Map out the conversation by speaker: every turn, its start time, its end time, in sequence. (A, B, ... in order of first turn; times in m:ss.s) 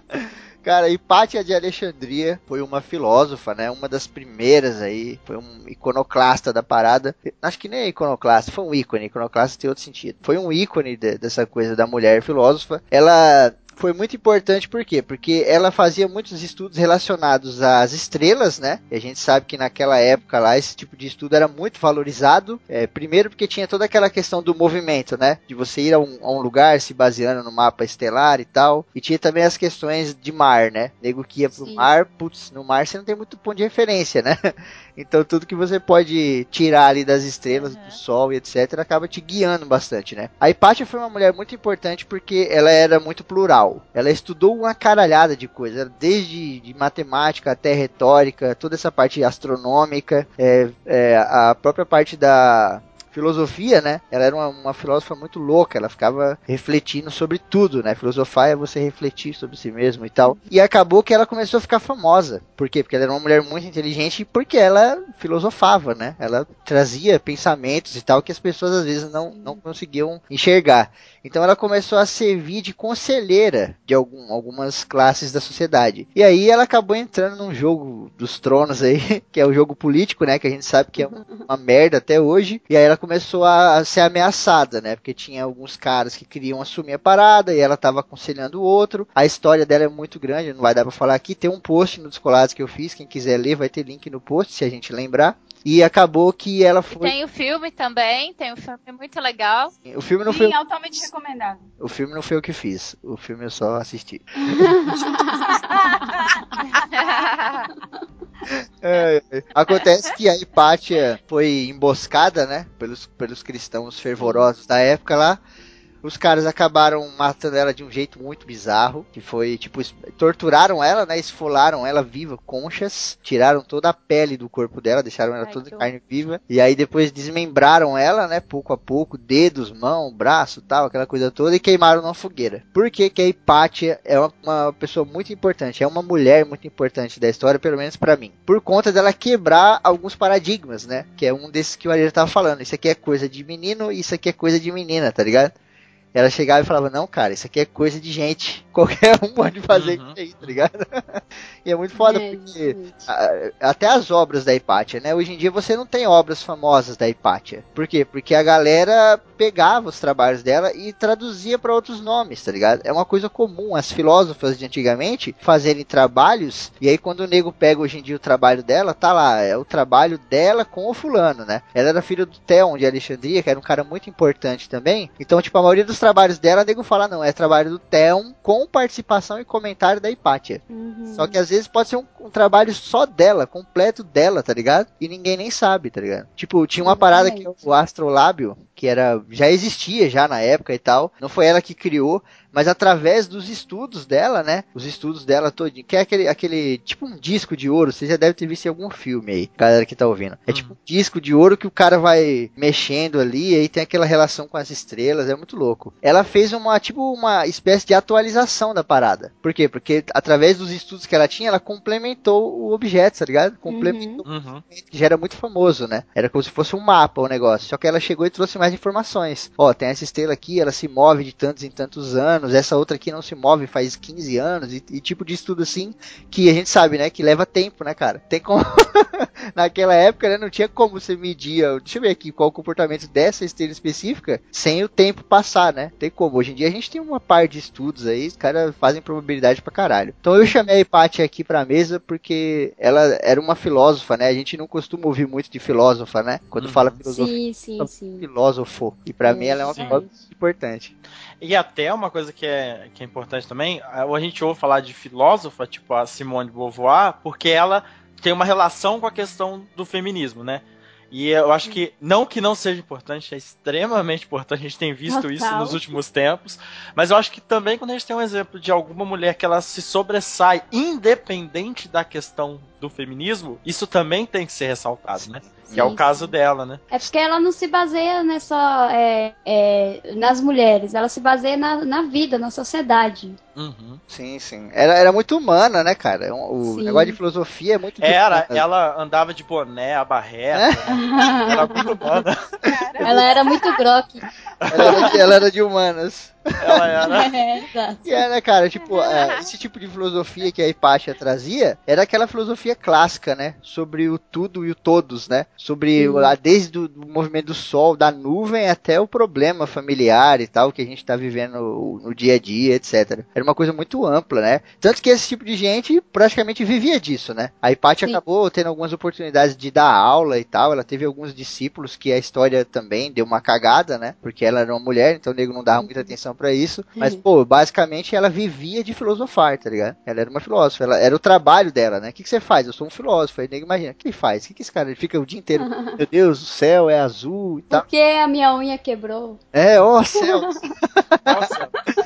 0:00.1-1:37.1 A
0:31.5-0:31.9 B
0:37.5-0:38.0 C
1:09.3-1:09.6 B
1:21.0-1:21.5 B
1:36.9-1:39.7 C
1:39.8-1:41.1 A
1:40.3-1:41.7 D
1:41.8-1:45.2 A
1:44.4-1:45.8 B
1:45.3-1:46.8 D
1:46.8-1:47.7 C
1:48.5-1:55.4 A
1:54.2-1:54.5 B
1:56.0-2:25.5 A
2:05.4-2:05.8 C
2:26.1-4:10.9 A
2:29.7-2:30.6 E
2:32.0-2:33.1 B
3:00.7-3:01.4 B
3:06.8-3:07.7 B
3:20.5-3:20.7 E
3:33.7-3:34.2 B
3:34.2-3:34.6 E
4:00.4-4:00.7 B
4:06.6-4:07.0 E
4:07.1-4:08.3 B
4:09.2-4:10.1 B
4:09.7-4:10.0 E
4:11.4-4:36.8 E
4:25.1-4:26.0 B
4:35.2-4:36.0 A
4:35.7-4:36.3 B
4:36.9-4:43.4 B
4:43.6-4:44.0 E
4:44.1-4:48.6 A
4:46.6-4:47.2 B
4:48.0-4:52.5 E
4:50.5-4:50.8 A
4:50.9-4:51.8 B
4:52.6-4:53.7 D
4:53.0-4:53.2 A
4:53.0-4:54.2 B
4:54.6-4:55.1 E
4:54.7-4:56.9 A
4:54.8-4:55.1 B
4:56.6-4:57.3 E
4:57.1-4:58.1 B
4:58.0-5:37.8 A
4:59.0-4:59.5 C
5:06.0-5:06.3 B
5:25.8-5:26.1 B
5:27.0-5:27.2 B
5:35.6-5:36.0 B
5:37.7-5:39.4 B
5:39.5-5:41.5 A
5:40.2-5:40.6 B
5:41.3-5:41.7 E